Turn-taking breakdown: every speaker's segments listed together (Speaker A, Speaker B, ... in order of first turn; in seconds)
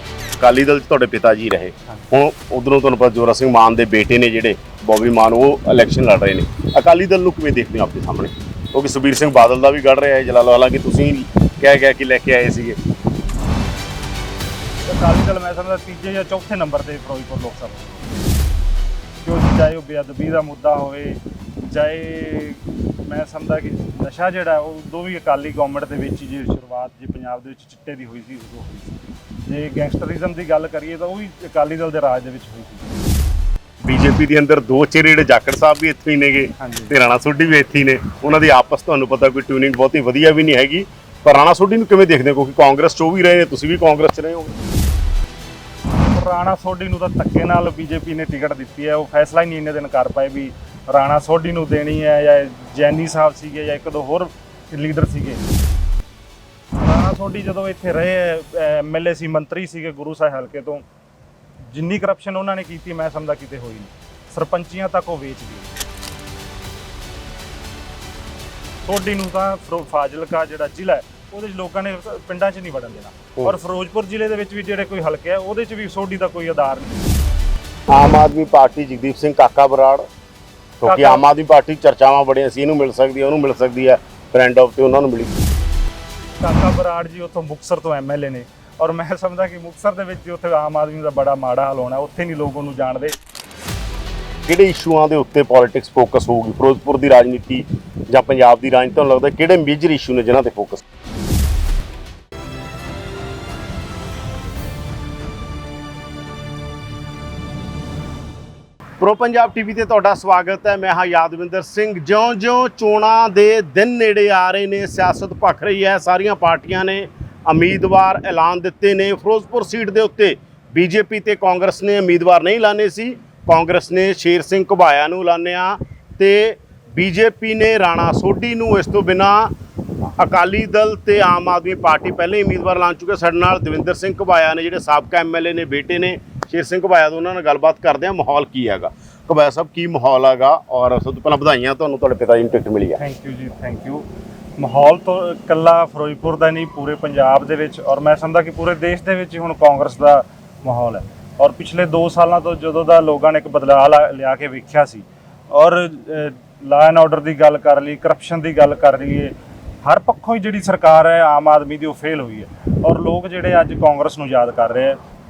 Speaker A: 0.4-12.8, 33.8-44.5, 77.9-80.0, 80.8-85.3, 94.5-100.8, 109.0-129.5, 130.2-143.0
Speaker B: 14.9-18.2, 19.2-32.9, 36.6-36.9, 46.0-55.4, 56.8-60.8, 61.7-65.7, 68.8-77.1, 80.8-81.2, 86.4-93.2, 143.0-144.1, 144.6-159.3, 159.8-165.0